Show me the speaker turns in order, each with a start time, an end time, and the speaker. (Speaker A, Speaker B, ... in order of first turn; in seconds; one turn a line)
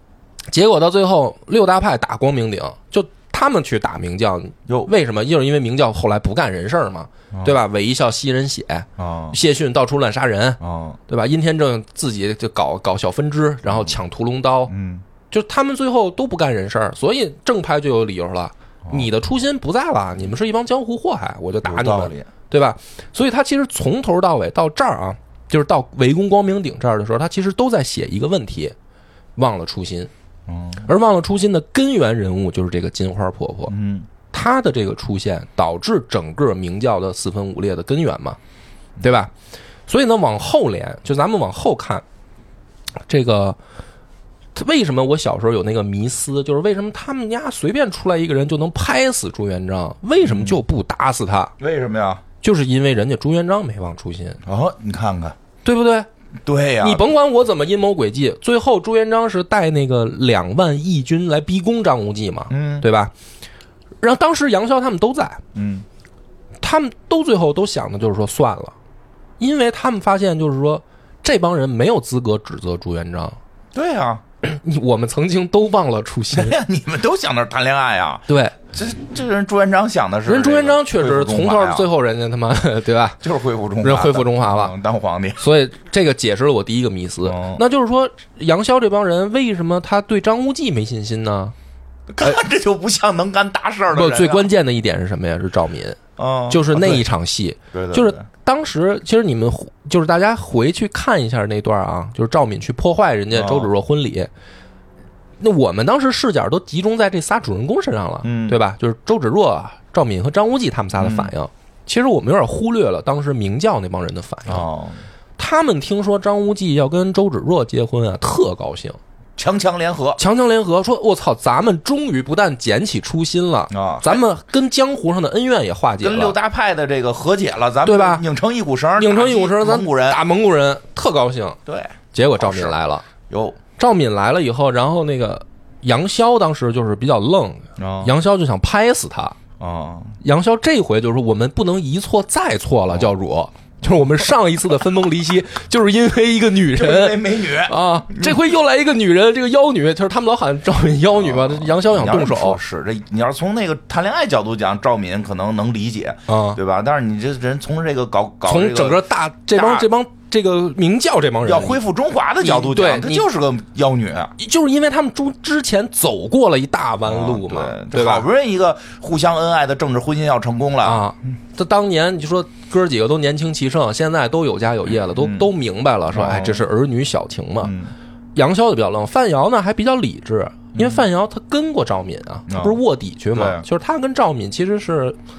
Speaker A: 0.5-14.7
Speaker B: 9.0-9.4
Speaker B: 10.6-11.0
Speaker B: 14.7-15.0
Speaker A: 15.3-28.7
Speaker B: 21.6-22.3
Speaker A: 29.4-30.1
Speaker B: 30.5-30.9
Speaker A: 30.8-33.7
Speaker B: 33.7-34.1
Speaker A: 34.3-38.4
Speaker A: 39.0-39.3
Speaker A: 39.9-42.0
Speaker A: 43.1-43.6
Speaker A: 44.5-51.5
Speaker B: 50.2-50.6
Speaker B: 51.6-52.2
Speaker A: 52.4-54.4
Speaker B: 54.4-55.4
Speaker A: 55.6-56.1
Speaker B: 56.4-57.1
Speaker A: 56.8-63.1
Speaker B: 62.5-62.9
Speaker A: 64.0-65.4
Speaker B: 65.5-65.8
Speaker A: 66.6-68.7
Speaker A: 69.4-73.4
Speaker B: 73.7-74.2
Speaker A: 74.4-76.6
Speaker B: 76.3-81.9
Speaker A: 78.3-78.5
Speaker A: 80.2-83.2
Speaker B: 83.2-85.4
Speaker A: 83.8-84.7
Speaker A: 85.4-91.5
Speaker B: 87.2-87.6
Speaker B: 92.1-94.5
Speaker A: 93.9-104.3
Speaker B: 96.2-97.0
Speaker B: 97.7-98.2
Speaker B: 103.3-103.7
Speaker A: 105.4-114.7
Speaker B: 108.2-108.6
Speaker B: 111.0-111.3
Speaker B: 114.5-115.0
Speaker A: 115.4-119.0
Speaker B: 119.4-120.2
Speaker A: 120.2-126.4
Speaker B: 123.7-124.2
Speaker B: 126.0-130.2
Speaker A: 127.8-128.2
Speaker A: 129.0-131.6
Speaker B: 131.7-132.8
Speaker A: 132.1-133.1
Speaker B: 133.3-133.6
Speaker A: 133.8-139.4
Speaker B: 137.8-138.1
Speaker B: 139.6-140.2
Speaker A: 140.2-152.6
Speaker B: 146.7-148.4
Speaker B: 151.1-159.0
Speaker A: 156.3-156.6
Speaker A: 158.5-161.8
Speaker B: 159.5-159.9
Speaker B: 161.4-164.3
Speaker A: 162.4-163.2
Speaker A: 164.4-168.3
Speaker B: 167.0-171.0
Speaker A: 170.8-177.7
Speaker B: 175.2-175.5
Speaker B: 176.1-176.7
Speaker B: 177.6-177.9
Speaker A: 178.3-185.2
Speaker B: 180.8-181.0
Speaker B: 182.5-182.8
Speaker B: 183.3-183.6